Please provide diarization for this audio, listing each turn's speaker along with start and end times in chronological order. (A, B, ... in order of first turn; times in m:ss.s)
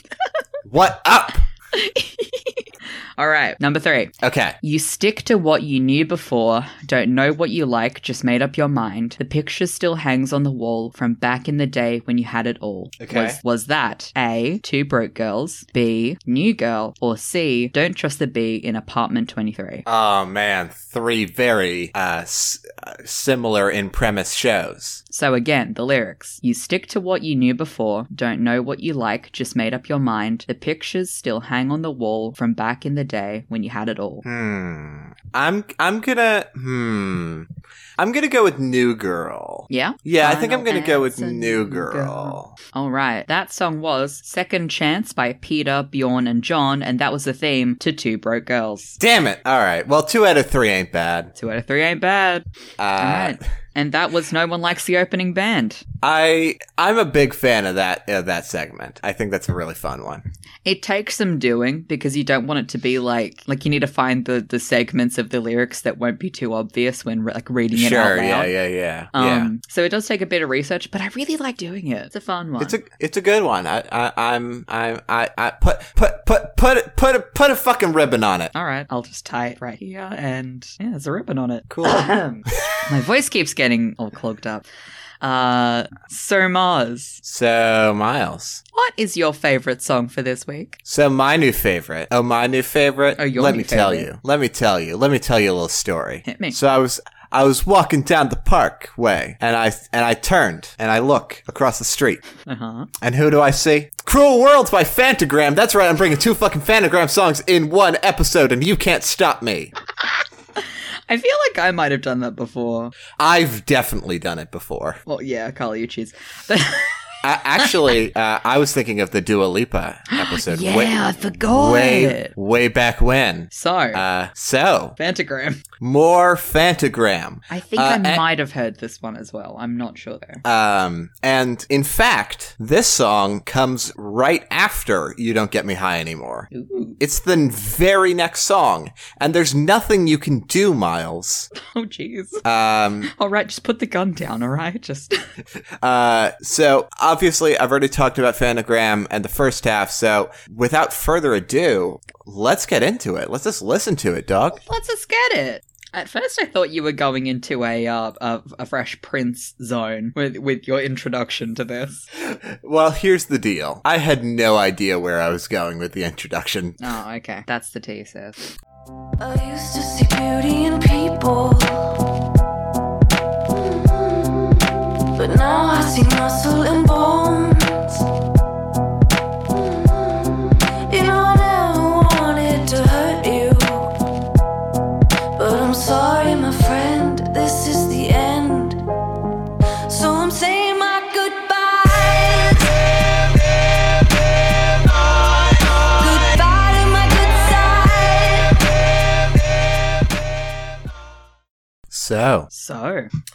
0:00.7-0:01.4 A
0:01.7-0:19.8 B
0:04.2-0:04.6 A
0:13.0-0:13.4 A
0:19.8-0:25.0 A
0:25.1-0:34.2 B
0:34.2-0:42.5 A
0:39.7-0:49.0 B
0:49.0-0:51.3 A
0:51.4-0:52.4 B
0:52.8-0:53.4 A
0:53.0-0:55.8 B
0:56.0-1:00.2 A
1:00.6-1:08.5 B
1:07.7-1:09.5 A
1:09.1-1:12.8 B
1:12.6-1:18.5 A
1:18.5-1:24.6 B
1:21.7-1:22.7 A
1:25.2-1:27.2 B
1:27.2-1:28.6 A
1:28.7-1:30.8 B
1:30.8-1:42.2 A
1:33.2-1:34.1 B
1:36.2-1:36.6 B
1:42.4-1:42.9 B
1:43.0-1:49.7 A
1:50.6-1:52.9 B
1:53.2-1:55.0 A
1:55.0-1:57.0 B
1:57.2-2:05.0 A
2:00.1-2:02.3 B
2:03.5-2:04.0 B
2:05.0-2:05.6 B
2:05.8-2:08.2 A
2:07.5-2:10.4 B
2:10.4-2:21.5 A
2:16.5-2:17.0 B
2:21.6-2:22.4 B
2:22.4-2:23.1 A
2:23.0-2:25.2 B
2:25.8-2:34.6 A
2:34.6-2:42.0 B
2:42.2-2:46.8 A
2:46.8-2:48.5 B
2:49.2-2:52.0 C
2:53.5-2:58.0 C
2:59.5-3:03.9 C
3:05.3-3:08.8 C
3:09.8-3:12.8 C
3:14.8-3:18.7 C
3:21.9-3:22.5 A
3:22.5-3:23.1 B